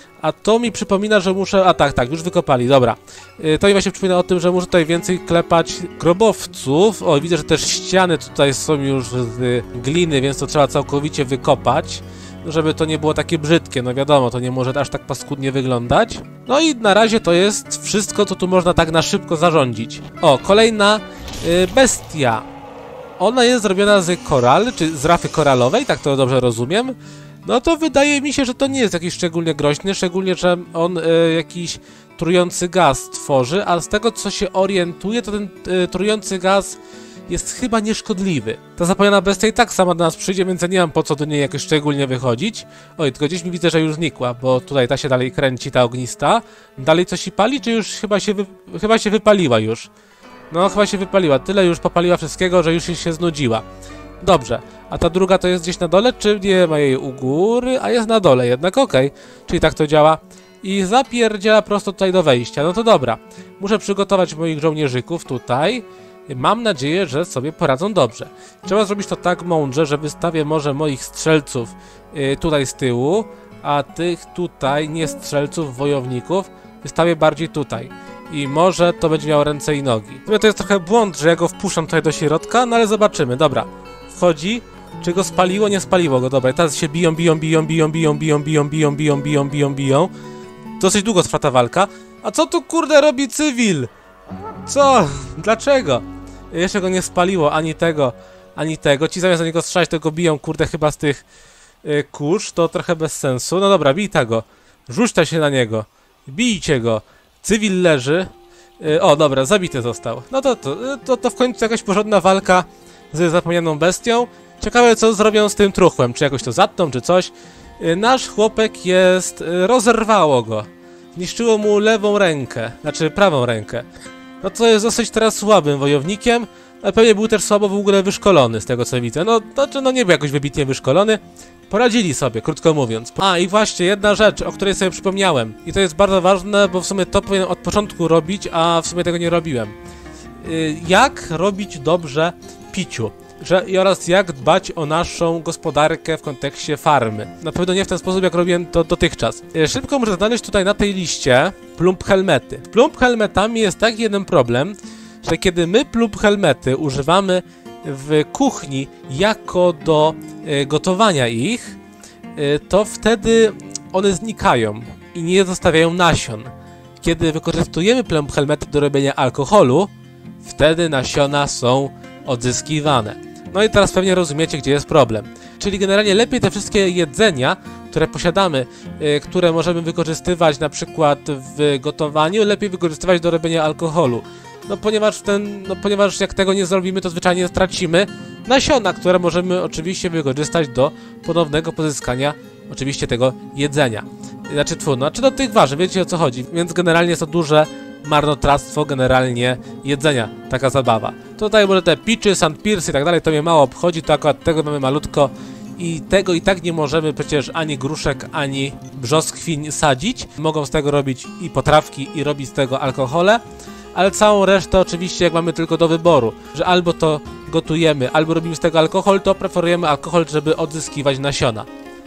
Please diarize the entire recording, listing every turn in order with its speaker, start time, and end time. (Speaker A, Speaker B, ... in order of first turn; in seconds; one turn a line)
Speaker A: 0.2-22.4
Speaker A: 23.2-49.9
Speaker A: 50.5-53.6
Speaker A: 54.2-90.1
Speaker A: 90.8-93.9
Speaker A: 94.6-101.2
Speaker A: 101.8-123.9
Speaker A: 124.4-139.8
Speaker A: 140.4-161.8
Speaker A: 162.4-166.5
Speaker A: 167.0-169.9
Speaker A: 170.4-213.4
Speaker A: 213.9-221.7